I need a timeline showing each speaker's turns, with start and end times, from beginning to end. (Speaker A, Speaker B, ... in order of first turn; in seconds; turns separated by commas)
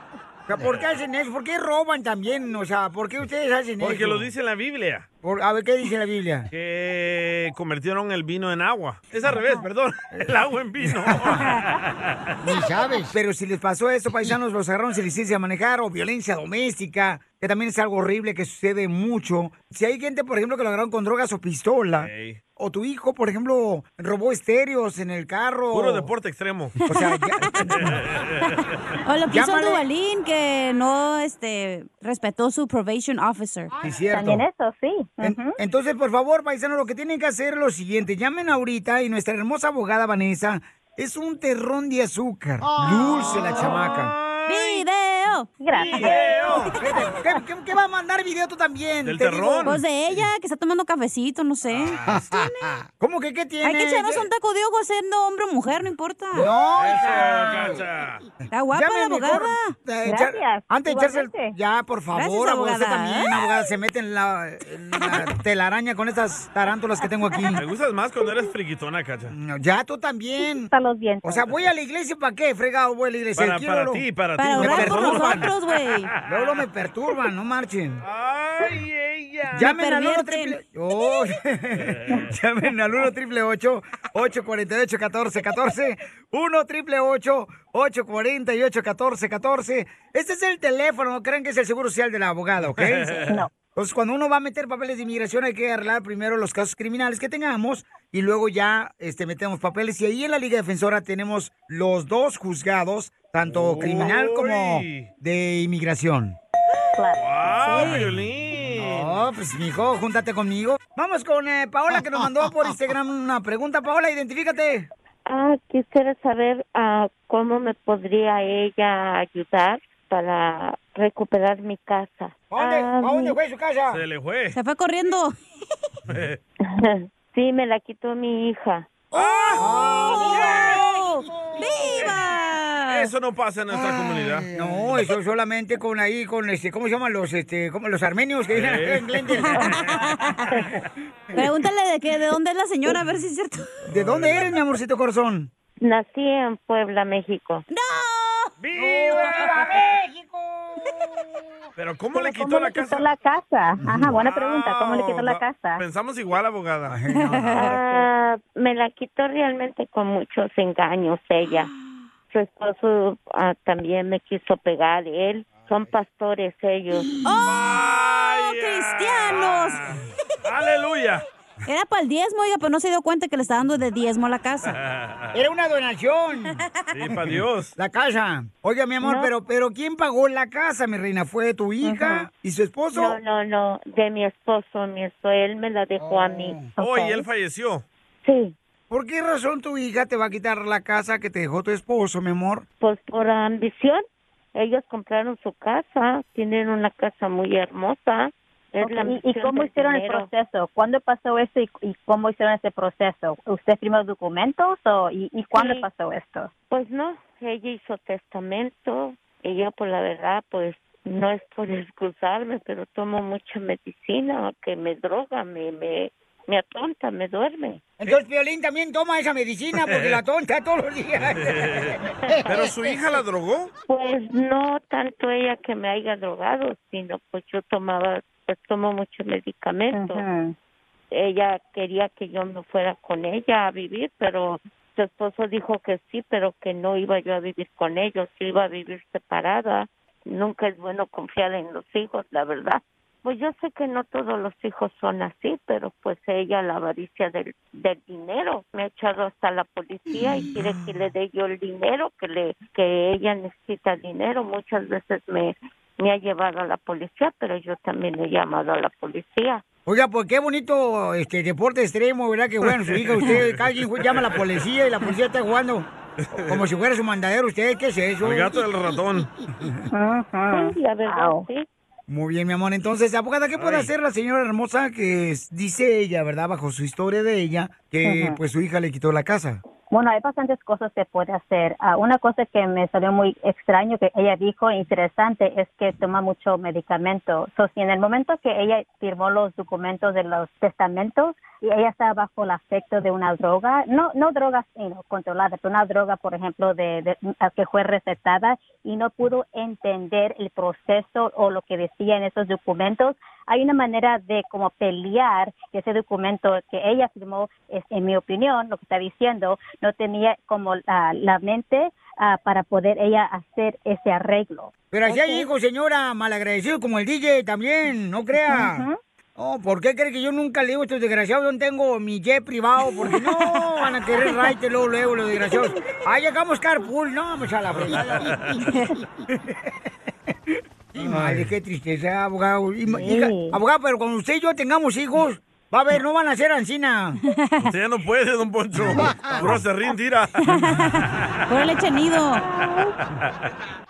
Speaker A: 0.5-4.3, Speaker B: 3.8-5.0, Speaker A: 5.2-6.5, Speaker B: 6.5-12.3, Speaker A: 10.8-11.4, Speaker A: 12.4-26.1, Speaker B: 22.0-22.4, Speaker B: 25.7-26.7, Speaker C: 26.8-27.8, Speaker A: 26.9-28.0, Speaker B: 27.7-29.0, Speaker C: 29.1-33.7, Speaker A: 29.3-29.8, Speaker A: 33.7-34.4, Speaker D: 34.1-35.5, Speaker A: 35.2-44.1, Speaker B: 43.3-44.4, Speaker C: 44.5-46.2, Speaker D: 45.6-46.7, Speaker B: 45.7-46.7, Speaker A: 46.0-50.2, Speaker B: 49.0-49.7, Speaker C: 49.6-52.7, Speaker B: 51.7-52.0, Speaker A: 52.0-54.3, Speaker C: 53.6-56.5, Speaker A: 56.3-57.8, Speaker B: 56.8-58.2, Speaker A: 58.4-67.6, Speaker C: 58.5-59.8, Speaker D: 60.0-61.5, Speaker C: 62.1-63.4, Speaker B: 67.5-69.3, Speaker A: 69.3-70.7, Speaker D: 70.7-71.5, Speaker A: 71.2-75.5, Speaker B: 73.3-75.5, Speaker C: 74.3-76.1, Speaker A: 76.2-78.0, Speaker B: 78.0-79.7, Speaker A: 79.5-106.4, Speaker C: 79.6-80.6, Speaker B: 81.9-82.2, Speaker B: 92.8-93.4, Speaker B: 103.5-105.1, Speaker D: 103.9-104.2, Speaker D: 107.0-108.1, Speaker B: 107.2-109.2, Speaker A: 108.8-114.9, Speaker E: 115.2-123.3, Speaker A: 122.5-124.0, Speaker B: 123.9-124.6, Speaker C: 124.5-125.3, Speaker B: 126.1-126.4, Speaker E: 126.6-129.0, Speaker B: 129.1-130.8, Speaker A: 129.5-132.1, Speaker C: 129.6-133.1, Speaker B: 132.9-134.5, Speaker A: 133.7-139.7, Speaker B: 138.5-139.9, Speaker C: 139.4-140.4, Speaker C: 141.3-143.8, Speaker A: 143.9-145.5, Speaker B: 143.9-144.6, Speaker E: 145.8-147.6, Speaker C: 147.7-148.5, Speaker B: 148.6-149.9, Speaker A: 148.7-151.4, Speaker B: 151.8-153.1, Speaker D: 152.1-155.8, Speaker A: 153.8-154.1, Speaker B: 154.0-157.0, Speaker A: 156.9-158.0, Speaker E: 157.6-161.7, Speaker E: 162.3-167.1, Speaker C: 167.2-169.8, Speaker B: 167.4-169.9, Speaker B: 170.4-171.2, Speaker C: 171.7-174.8, Speaker B: 174.8-175.4, Speaker A: 175.3-176.6, Speaker B: 176.9-177.7, Speaker A: 177.1-183.2, Speaker C: 179.0-179.3, Speaker D: 181.8-182.3, Speaker E: 182.9-187.2, Speaker A: 186.0-186.8, Speaker B: 186.8-187.8, Speaker E: 188.2-188.5, Speaker A: 188.9-192.6, Speaker E: 192.8-200.3, Speaker D: 198.8-206.5, Speaker E: 205.5-205.8, Speaker E: 206.7-217.8, Speaker A: 218.0-222.9, Speaker B: 219.9-220.2, Speaker B: 221.4-223.7, Speaker E: 223.9-230.2, Speaker D: 229.9-230.5, Speaker E: 231.1-259.6, Speaker A: 259.9-265.9, Speaker B: 262.8-264.4, Speaker B: 266.2-266.6, Speaker A: 266.5-268.6, Speaker B: 268.2-269.3, Speaker D: 269.9-271.4, Speaker E: 270.5-271.7, Speaker A: 272.1-279.6, Speaker B: 273.6-273.9, Speaker D: 278.0-278.4, Speaker D: 279.9-315.5, Speaker A: 314.9-329.6, Speaker D: 318.5-319.0, Speaker B: 327.7-328.5, Speaker A: 330.5-337.2, Speaker D: 333.0-333.6, Speaker C: 337.4-337.6, Speaker B: 337.6-340.3, Speaker A: 338.8-339.6, Speaker C: 340.4-342.4, Speaker B: 341.1-341.5, Speaker D: 342.6-342.9